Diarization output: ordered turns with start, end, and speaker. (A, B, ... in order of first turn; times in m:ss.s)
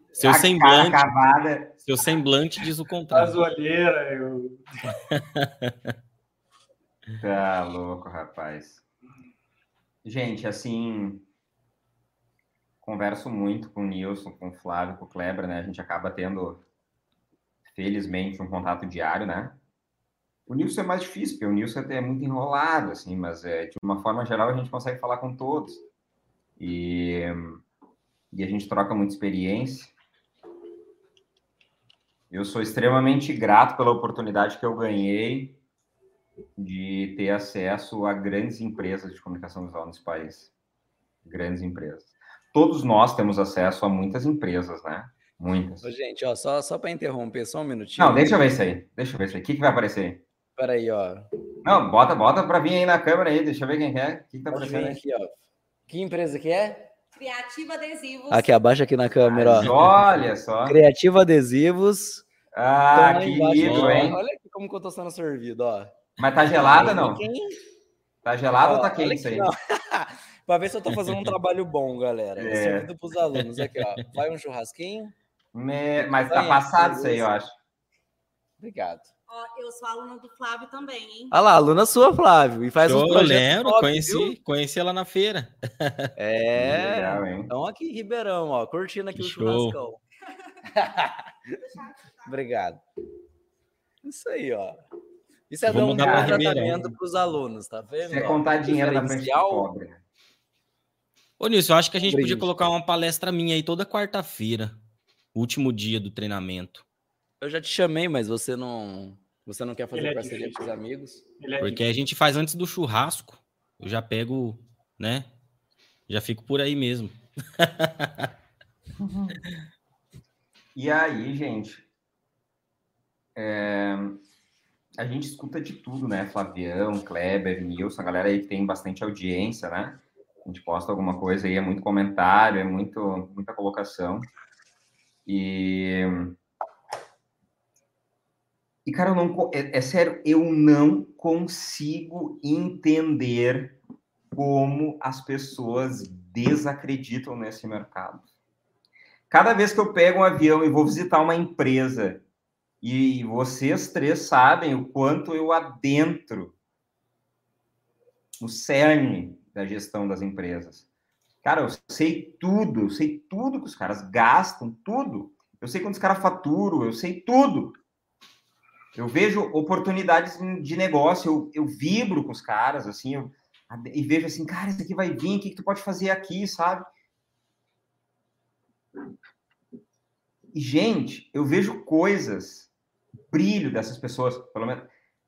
0:00.2-0:01.0 A
0:00.2-0:01.8 B
0:01.8-0:03.4 A
0:03.1-0:05.0 C
0:05.1-0:05.9 A
0:07.2-0:08.8 B
0:10.0-0:11.2 B
0:12.8-0:16.6 B
0:17.7-0:19.6 B
0:20.5-0:25.8 B
0:26.6-0:27.6 B
0:28.3-0:29.9 B
0:32.3-0:35.6 B
0:36.6-0:40.5 B
0:41.2-0:45.8 B
0:45.8-0:48.4 D
0:48.0-0:50.2 B
0:50.6-0:51.2 D
0:51.6-0:55.0 B
0:54.5-0:55.3 D
0:55.9-0:56.9 D
0:57.1-0:58.5 E
0:58.3-0:59.7 D
0:59.2-1:00.8 B
1:00.6-1:02.2 D
1:02.5-1:04.2 B
1:02.9-1:06.0 D
1:03.6-1:04.1 A
1:06.2-1:07.2 B
1:06.5-1:07.6 D
1:08.2-1:09.5 B
1:08.6-1:15.1 D
1:10.9-1:11.4 A
1:12.4-1:12.9 B
1:15.5-1:17.5 B
1:16.0-1:17.3 D
1:18.6-1:19.1 D
1:19.3-1:21.3 E
1:21.3-1:24.3 D
1:22.8-1:26.1 A
1:26.2-1:30.0 D
1:26.6-1:27.5 B
1:29.2-1:29.8 A
1:30.7-1:31.2 D
1:32.2-1:32.8 D
1:34.0-1:34.8 D
1:35.5-1:39.7 D
1:35.7-1:36.9 A
1:35.9-1:36.4 B
1:38.0-1:40.0 B
1:41.4-1:44.7 A
1:42.0-1:42.5 D
1:45.3-1:46.8 A
1:47.4-1:51.2 D
1:49.9-1:50.7 C
1:51.4-1:51.8 C
1:51.6-1:55.3 A
1:56.1-1:58.3 A
2:00.7-2:01.8 B
2:03.3-2:04.2 B
2:05.0-2:14.2 B
2:15.2-2:16.4 B
2:18.8-2:23.8 B
2:24.3-2:28.3 B
2:29.3-2:32.2 B
2:32.8-2:36.5 B
2:38.4-2:40.8 B
2:41.4-2:47.8 B
2:48.9-2:56.9 B
3:00.5-3:02.7 B
3:03.3-3:04.9 B